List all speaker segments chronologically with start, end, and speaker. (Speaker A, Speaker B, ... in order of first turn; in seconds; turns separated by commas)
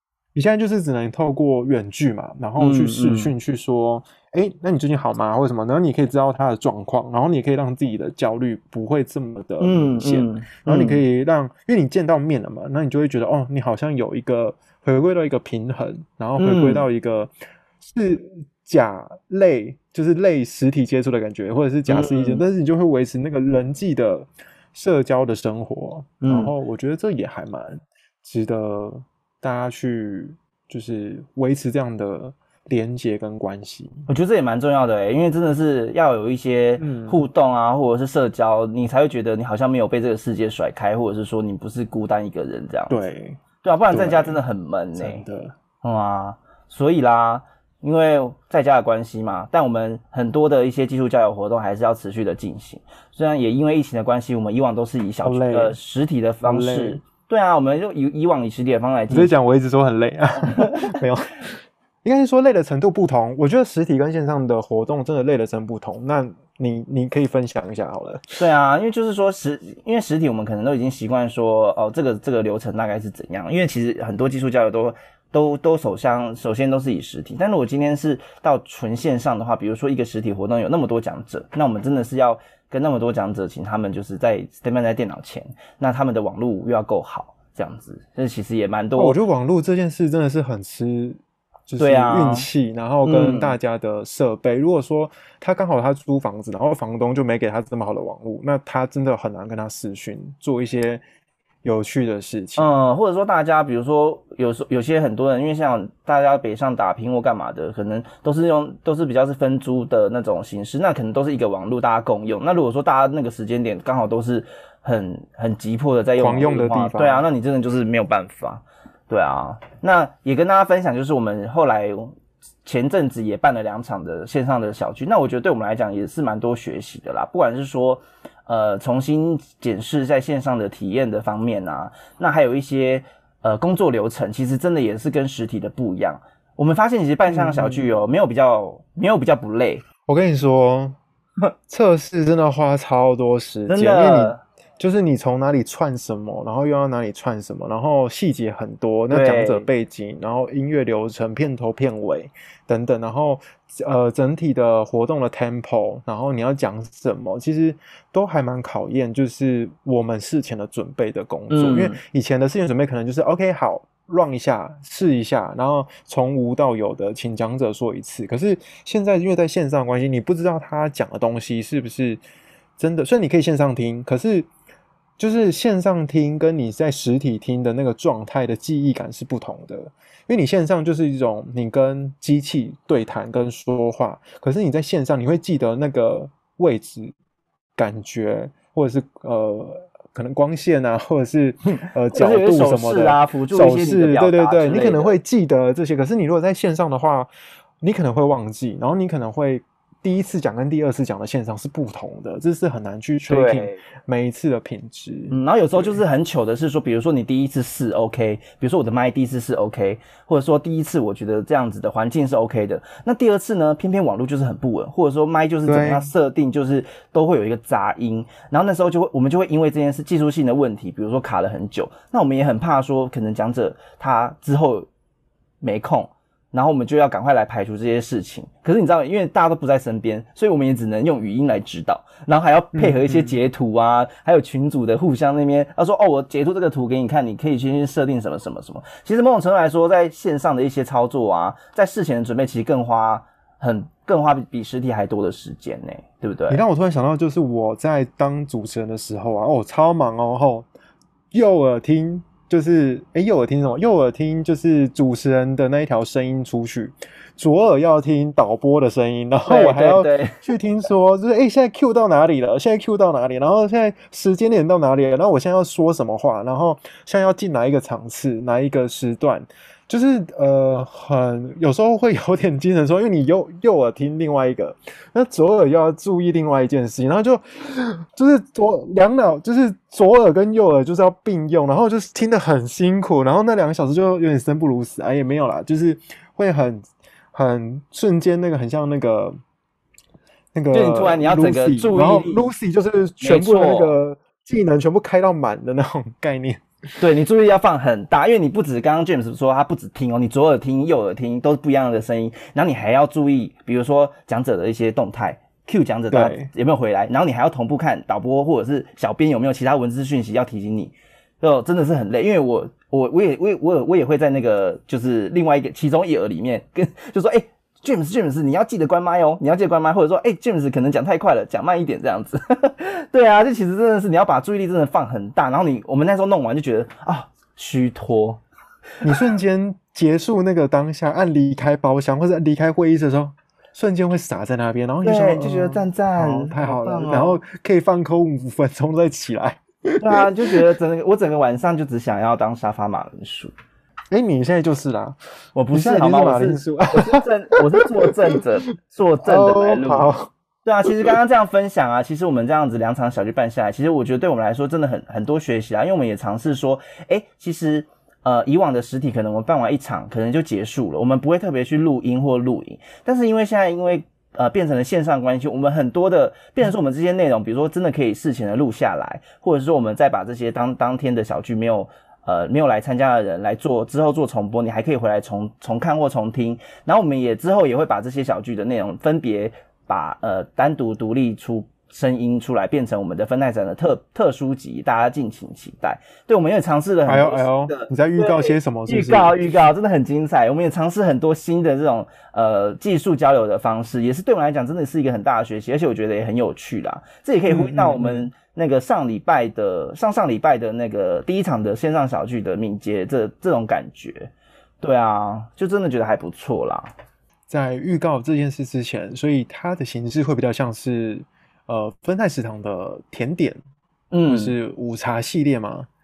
Speaker A: 0.3-34.0, Speaker B: 2.6-3.3, Speaker B: 9.6-11.0, Speaker B: 16.4-16.9, Speaker B: 21.9-22.4, Speaker B: 26.2-26.5, Speaker B: 34.1-43.0, Speaker A: 36.8-37.2, Speaker A: 42.9-44.4, Speaker B: 43.6-59.3, Speaker A: 44.9-45.5, Speaker A: 55.2-55.8, Speaker A: 56.4-57.0, Speaker A: 59.1-68.4, Speaker B: 68.4-89.2, Speaker A: 89.0-101.0, Speaker B: 91.8-92.5, Speaker B: 93.0-93.5, Speaker A: 101.6-102.7, Speaker B: 102.6-139.8, Speaker A: 116.2-117.2, Speaker A: 137.3-137.9, Speaker A: 140.1-141.0, Speaker A: 141.7-172.2, Speaker B: 143.7-144.4, Speaker B: 149.1-149.7, Speaker B: 161.5-162.0, Speaker A: 172.8-174.5, Speaker A: 175.2-187.1, Speaker A: 187.8-197.3, Speaker B: 192.1-195.2, Speaker A: 197.8-206.0, Speaker B: 203.3-203.8, Speaker B: 205.3-224.9, Speaker A: 215.7-216.1, Speaker B: 225.6-246.6, Speaker A: 232.7-233.4, Speaker A: 246.5-250.7, Speaker A: 251.3-289.4, Speaker B: 259.5-260.4, Speaker A: 290.5-296.6, Speaker B: 290.7-292.5, Speaker B: 293.2-294.0, Speaker B: 297.0-328.4, Speaker A: 306.1-306.5, Speaker A: 329.0-340.6, Speaker B: 335.0-337.4, Speaker B: 340.0-343.5, Speaker A: 344.1-345.2, Speaker B: 345.5-350.1, Speaker A: 345.7-348.4, Speaker A: 349.2-350.3, Speaker B: 350.6-406.9, Speaker A: 350.9-351.1, Speaker A: 387.1-389.5, Speaker A: 397.5-398.3, Speaker A: 407.5-413.6, Speaker B: 414.1-414.5, Speaker A: 414.3-415.9